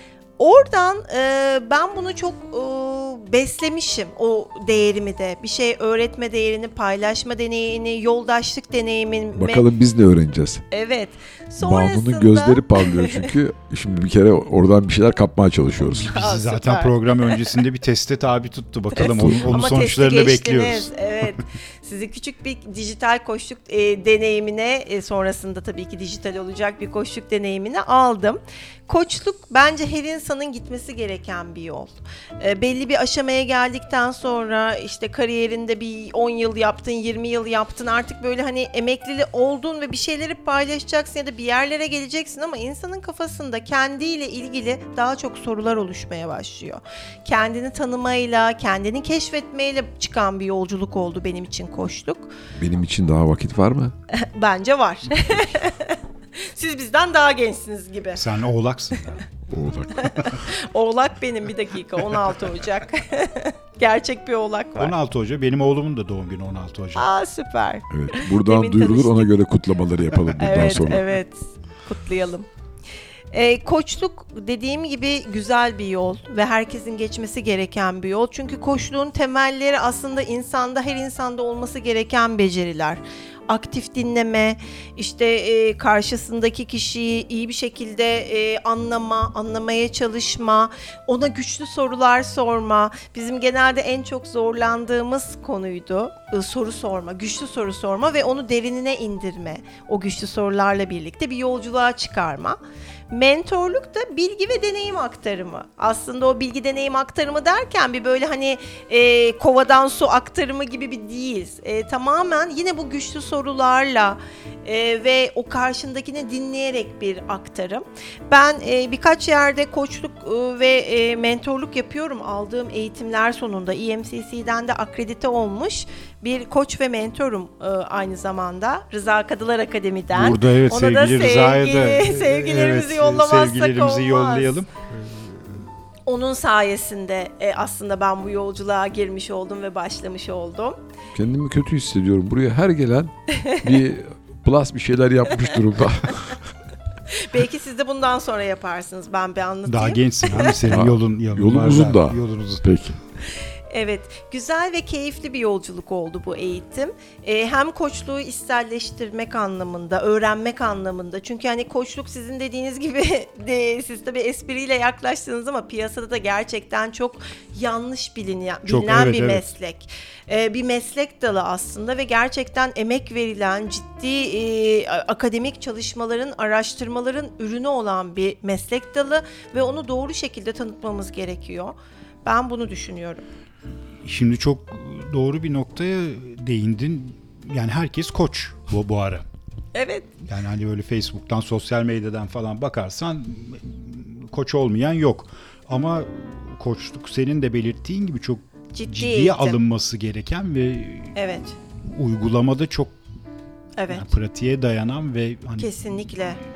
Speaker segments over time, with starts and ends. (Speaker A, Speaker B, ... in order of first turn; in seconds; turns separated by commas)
Speaker A: 0.4-9.7, Speaker B: 9.4-10.6, Speaker A: 10.7-13.3, Speaker B: 11.6-16.2, Speaker C: 15.8-20.9, Speaker A: 16.1-17.4, Speaker A: 18.9-52.3, Speaker B: 19.0-19.7, Speaker B: 52.6-53.9, Speaker A: 54.1-58.2, Speaker C: 58.1-59.3, Speaker B: 59.5-60.4, Speaker A: 60.0-65.0, Speaker C: 64.8-67.1, Speaker A: 67.0-69.3, Speaker B: 67.9-71.0, Speaker A: 70.4-72.5, Speaker A: 73.3-102.6, Speaker A: 103.1-134.6, Speaker C: 130.1-135.7, Speaker A: 136.1-140.8, Speaker B: 141.2-146.4, Speaker A: 147.1-150.5, Speaker C: 149.7-152.7, Speaker B: 150.7-153.0, Speaker A: 153.7-183.2, Speaker C: 168.7-169.5, Speaker C: 184.0-189.3, Speaker A: 189.8-190.1, Speaker C: 190.2-201.2, Speaker A: 198.7-199.6, Speaker A: 201.2-201.6, Speaker C: 201.8-203.0, Speaker A: 203.8-204.1, Speaker C: 203.9-206.0, Speaker A: 205.6-206.4